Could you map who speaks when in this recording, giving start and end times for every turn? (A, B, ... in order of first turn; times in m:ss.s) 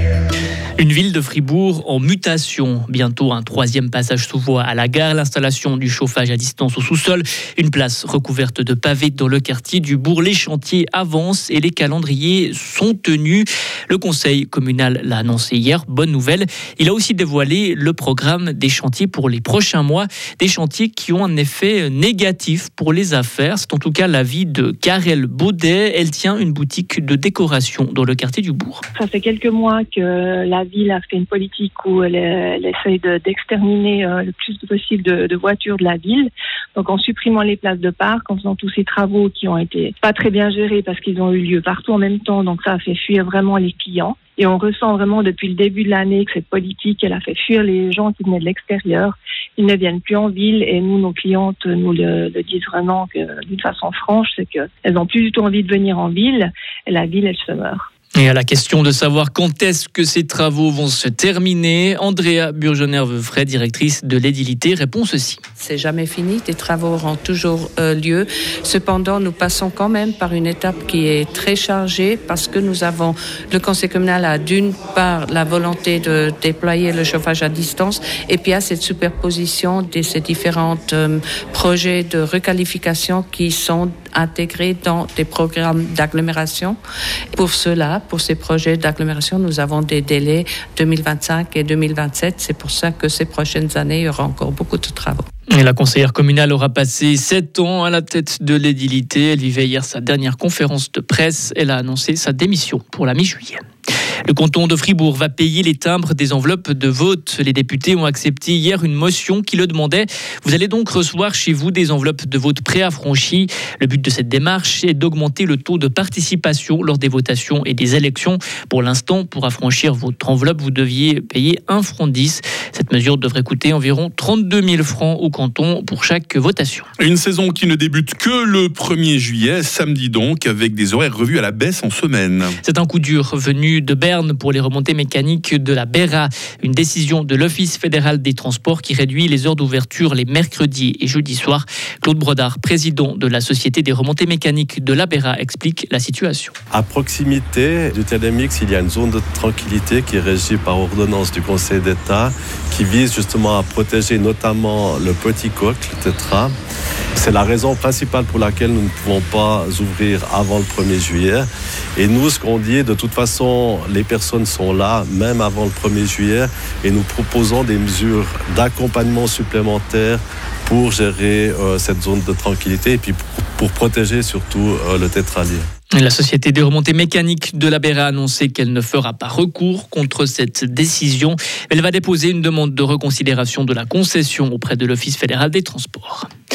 0:00.8-0:28.8 A
0:29.0-0:57.9 B
0:58.2-1:05.4 A
1:05.6-1:26.8 C
1:27.3-1:35.2 C
1:35.5-1:43.6 A
1:44.3-2:06.9 A
2:07.0-2:12.5 D
2:12.6-2:26.5 A
2:26.7-2:36.5 E
2:37.2-2:55.7 E
2:55.9-3:06.3 A